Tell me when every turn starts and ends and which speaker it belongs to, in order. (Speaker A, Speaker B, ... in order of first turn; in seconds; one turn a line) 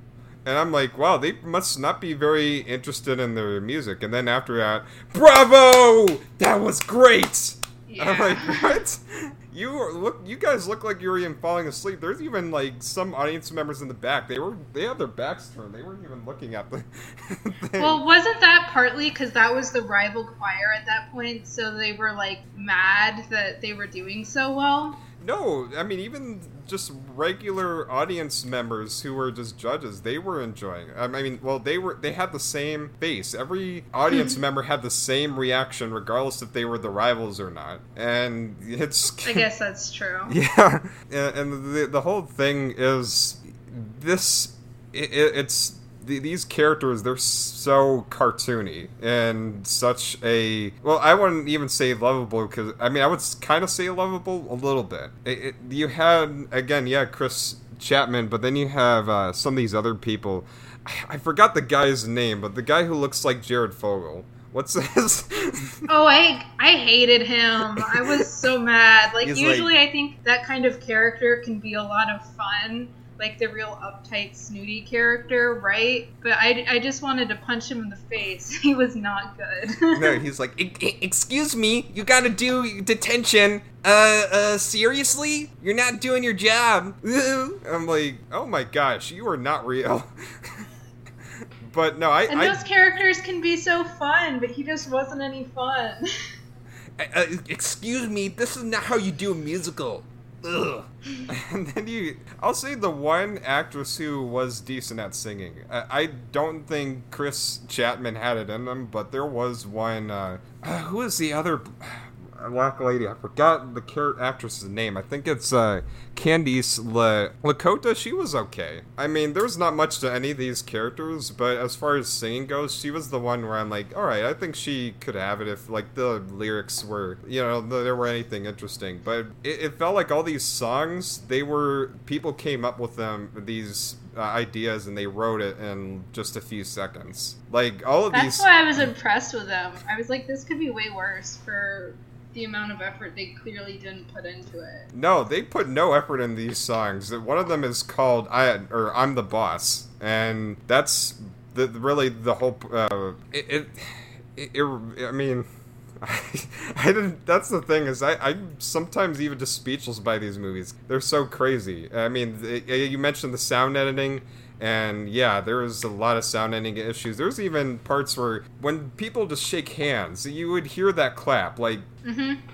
Speaker A: 0.4-18.0
Speaker B: 7.9-8.8
Speaker B: 17.8-25.0
Speaker A: 25.2-39.5
Speaker B: 39.2-40.3
Speaker A: 40.3-65.9
Speaker B: 65.9-80.2
Speaker A: 67.7-68.2
Speaker A: 69.2-69.7
Speaker A: 79.9-90.7
Speaker A: 91.6-92.6
Speaker B: 92.3-96.3
Speaker A: 97.0-138.9
Speaker B: 138.1-144.9
Speaker A: 144.9-155.4
Speaker A: 156.0-171.8
Speaker B: 172.0-172.4